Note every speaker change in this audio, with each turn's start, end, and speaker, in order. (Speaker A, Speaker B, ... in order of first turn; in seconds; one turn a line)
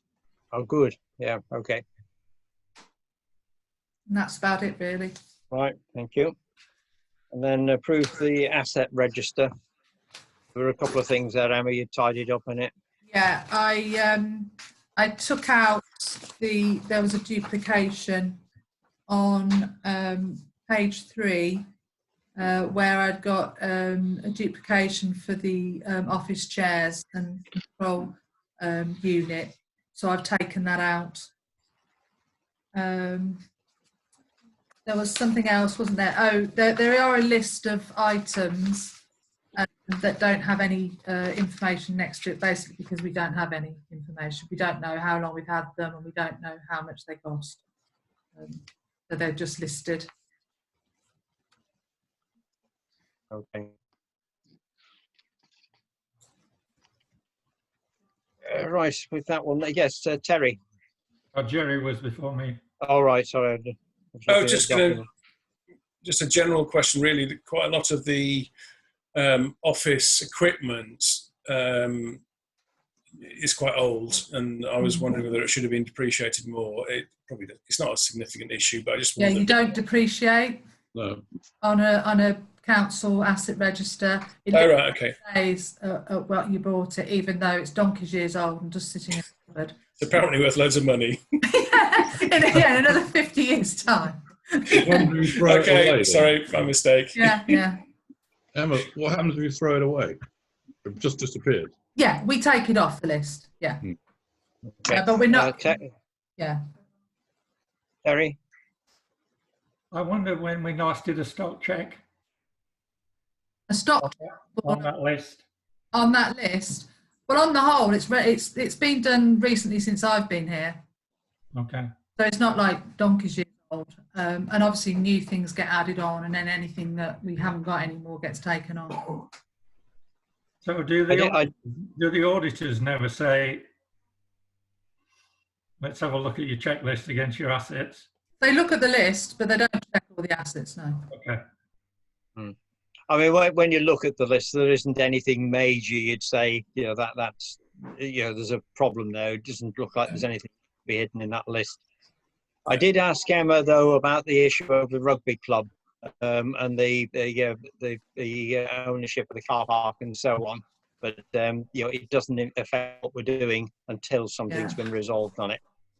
Speaker A: 0.5-1.8
Speaker B: 4.1-5.1
Speaker A: 5.5-6.3
Speaker A: 7.3-9.5
Speaker A: 10.5-12.7
Speaker B: 13.1-18.4
Speaker B: 19.1-21.6
Speaker B: 22.4-31.3
Speaker B: 32.7-33.4
Speaker B: 34.9-39.0
Speaker B: 39.5-47.6
Speaker B: 48.3-50.1
Speaker A: 53.3-53.7
Speaker A: 58.5-60.6
Speaker C: 61.3-62.6
Speaker A: 62.8-65.0
Speaker D: 64.3-65.0
Speaker D: 66.0-68.5
Speaker D: 69.1-72.2
Speaker D: 73.2-79.6
Speaker B: 79.2-80.6
Speaker E: 80.9-81.2
Speaker B: 81.6-89.8
Speaker D: 84.5-85.2
Speaker D: 90.0-91.2
Speaker B: 91.5-95.1
Speaker E: 94.7-96.7
Speaker D: 95.3-97.3
Speaker B: 97.2-97.8
Speaker E: 98.5-100.2
Speaker E: 100.8-101.7
Speaker B: 102.0-103.8
Speaker A: 104.7-105.8
Speaker B: 104.9-105.7
Speaker A: 108.0-108.4
Speaker C: 109.9-112.0
Speaker B: 113.7-114.9
Speaker C: 114.6-115.4
Speaker B: 115.9-120.8
Speaker C: 121.5-121.9
Speaker B: 122.2-129.2
Speaker C: 130.6-133.6
Speaker A: 131.1-131.5
Speaker C: 135.8-138.0
Speaker B: 138.4-141.1
Speaker C: 141.1-141.4
Speaker A: 143.1-151.8
Speaker A: 152.7-165.6
Speaker B: 164.5-164.8